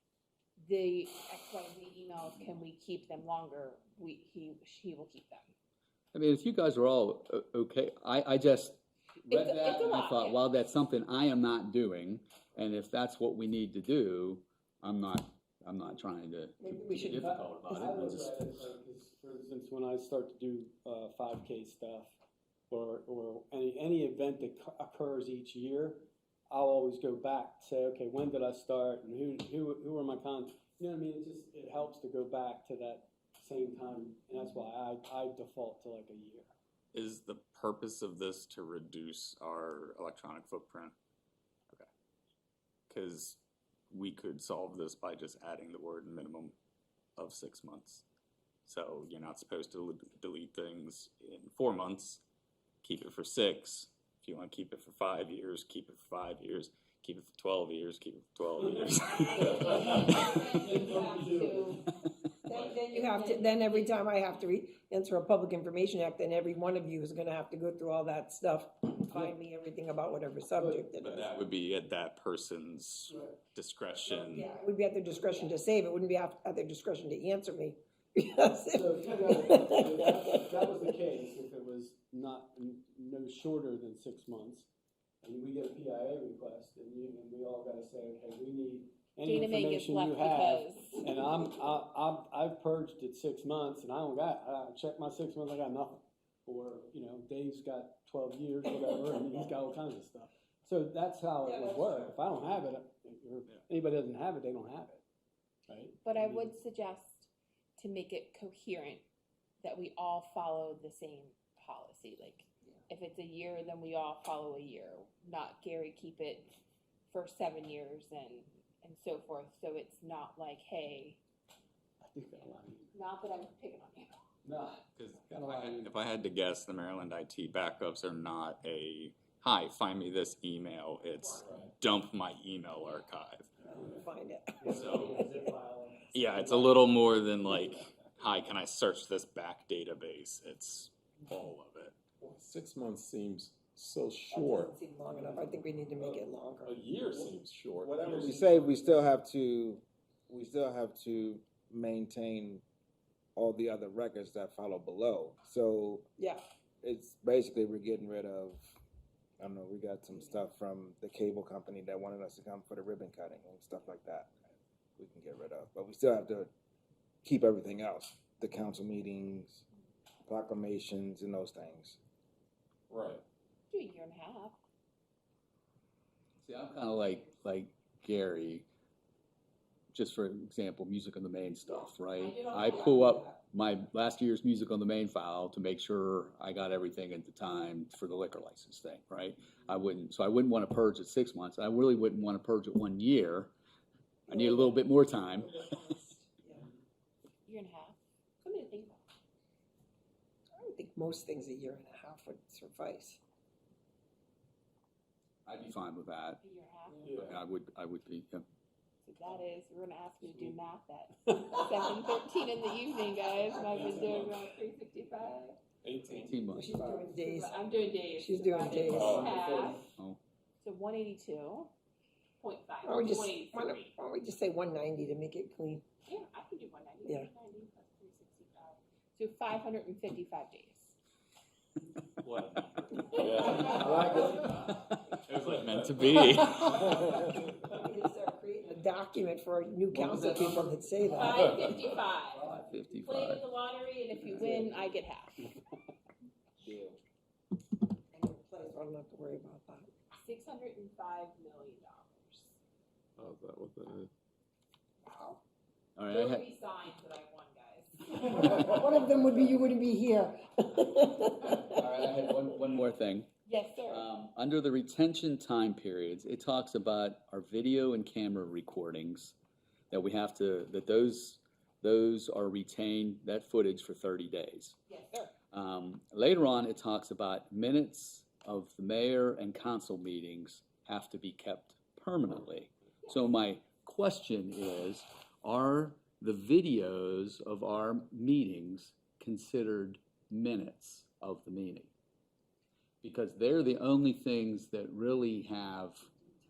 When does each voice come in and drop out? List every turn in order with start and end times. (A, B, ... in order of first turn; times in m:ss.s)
0:00.6-0:05.5 A
0:06.1-0:18.5 B
0:09.3-0:10.4 A
0:16.6-0:17.9 C
0:17.1-0:22.1 D
0:22.7-0:36.5 D
0:36.9-0:40.9 E
0:42.9-0:43.4 E
0:43.9-0:46.5 E
0:47.2-0:48.0 E
0:48.6-0:52.2 E
0:52.8-1:00.0 E
0:59.1-1:01.8 A
0:59.6-1:01.8 D
1:02.4-1:11.2 C
1:02.6-1:04.1 A
1:10.5-1:10.9 D
1:11.0-1:14.5 E
1:14.1-1:20.5 C
1:18.7-1:24.7 D
1:25.2-1:45.0 D
1:29.2-1:31.1 A
1:41.4-1:42.3 C
1:45.7-1:46.5 D
1:46.0-1:49.0 A
1:49.6-1:56.5 A
1:57.1-2:01.2 A
2:02.0-2:02.9 D
2:02.9-2:04.2 A
2:04.4-2:05.9 D
2:05.0-2:13.5 E
2:11.4-2:11.7 F
2:13.6-2:15.5 C
2:14.6-2:17.0 D
2:14.6-2:15.2 E
2:16.1-2:22.0 E
2:22.2-2:25.4 F
2:24.3-2:26.8 C
2:25.9-2:29.0 F
2:27.8-2:32.6 G
2:33.4-2:36.0 G
2:36.8-2:38.7 G
2:39.4-2:44.3 G
2:45.0-2:46.5 G
2:47.2-2:49.6 G
2:50.3-2:52.0 G
2:52.9-2:53.2 F
2:53.7-2:54.6 A
2:56.4-2:58.6 B
2:59.9-3:13.5 B
3:02.1-3:03.0 A
3:02.5-3:03.4 C
3:14.3-3:15.7 B
3:14.3-3:16.7 C
3:17.4-3:19.0 A
3:20.6-3:23.2 C
3:25.4-3:26.4 B
3:26.4-3:27.1 A
3:27.2-3:28.4 B
3:29.0-3:35.6 A
3:33.6-3:34.4 F
3:35.8-3:36.4 F
3:36.1-3:36.7 B
3:36.5-3:37.5 C
3:36.9-3:39.8 A
3:38.2-3:39.7 C
3:38.9-3:39.4 F
3:40.6-3:41.7 A
3:42.4-3:43.9 A
3:42.8-3:45.8 C
3:46.0-3:51.0 A
3:52.2-3:54.4 E
3:53.1-3:54.4 F
3:53.3-3:53.9 A
3:54.5-3:54.8 B
3:55.2-3:57.0 E
3:56.9-4:01.6 C
3:59.9-4:00.6 B
4:01.1-4:05.5 A
4:02.4-4:03.4 B
4:06.6-4:07.0 G
4:08.1-4:09.9 C
4:10.2-4:12.6 A
4:13.2-4:14.1 F
4:15.0-4:15.4 C
4:16.0-4:16.4 B
4:16.1-4:18.3 A
4:18.1-4:21.6 C
4:21.2-4:23.3 B
4:23.4-4:24.0 A
4:23.9-4:29.4 B
4:29.9-4:34.8 B
4:34.9-4:35.3 A
4:35.5-4:51.9 B
4:53.0-4:56.0 B